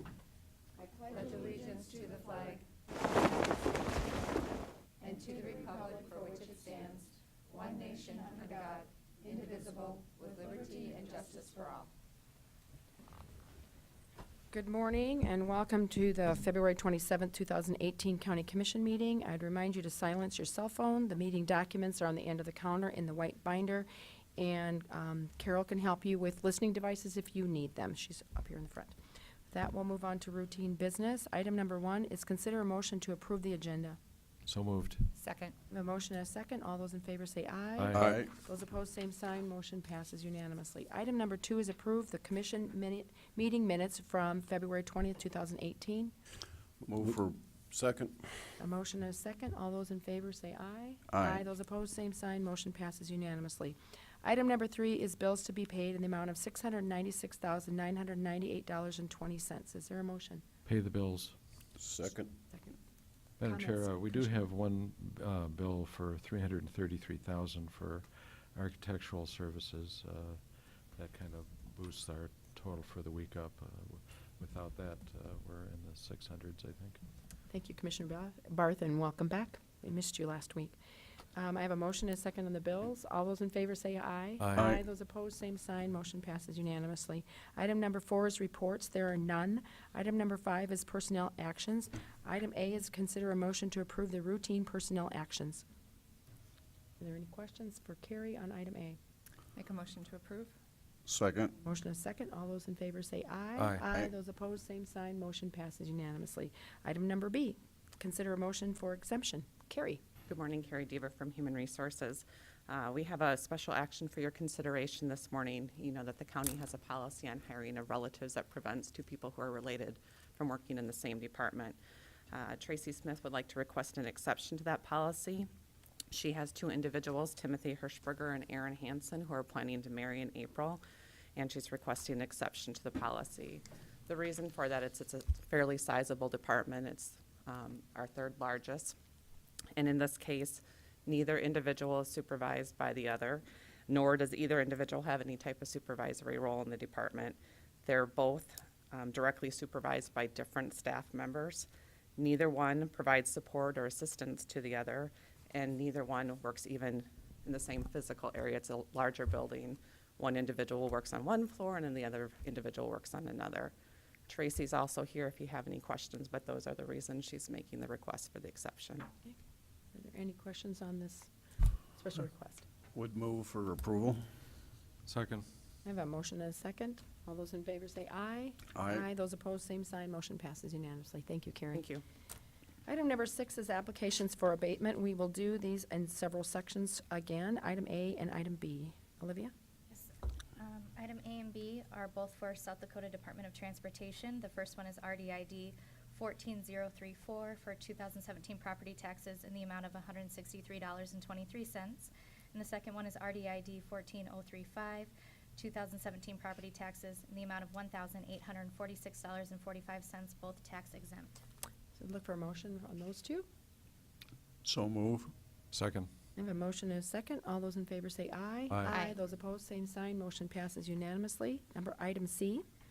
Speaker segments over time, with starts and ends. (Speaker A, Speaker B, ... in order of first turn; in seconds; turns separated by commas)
Speaker A: 0.9-2.6, Speaker A: 5.0-11.9, Speaker B: 14.5-28.9, Speaker B: 29.5-34.0, Speaker C: 34.5-35.1, Speaker A: 35.2-35.5, Speaker B: 35.7-46.1, Speaker C: 37.8-38.3, Speaker D: 37.9-38.3, Speaker D: 46.8-48.5, Speaker B: 48.6-60.4, Speaker D: 51.1-51.5, Speaker C: 60.7-61.4, Speaker D: 61.8-62.3, Speaker B: 62.1-62.8, Speaker C: 63.4-77.0, Speaker B: 63.4-64.4, Speaker B: 77.5-80.8, Speaker B: 81.3-95.6, Speaker C: 84.4-84.7, Speaker D: 84.6-84.8, Speaker B: 97.0-99.0, Speaker A: 99.6-100.5, Speaker D: 101.1-101.5, Speaker B: 101.6-110.0, Speaker C: 103.6-103.8, Speaker E: 110.3-121.8, Speaker E: 122.3-125.5, Speaker E: 126.1-130.8, Speaker E: 131.4-139.0, Speaker E: 139.8-163.7, Speaker E: 164.3-169.1, Speaker B: 169.9-171.3, Speaker B: 171.9-172.7, Speaker D: 172.9-174.2, Speaker C: 175.1-175.4, Speaker B: 175.8-181.8, Speaker D: 178.8-179.1, Speaker E: 181.7-182.0, Speaker B: 182.9-189.5, Speaker F: 189.9-211.4, Speaker B: 212.0-213.5, Speaker D: 214.6-215.3, Speaker C: 215.7-216.1, Speaker B: 216.4-222.6, Speaker C: 218.7-219.0, Speaker A: 218.9-219.1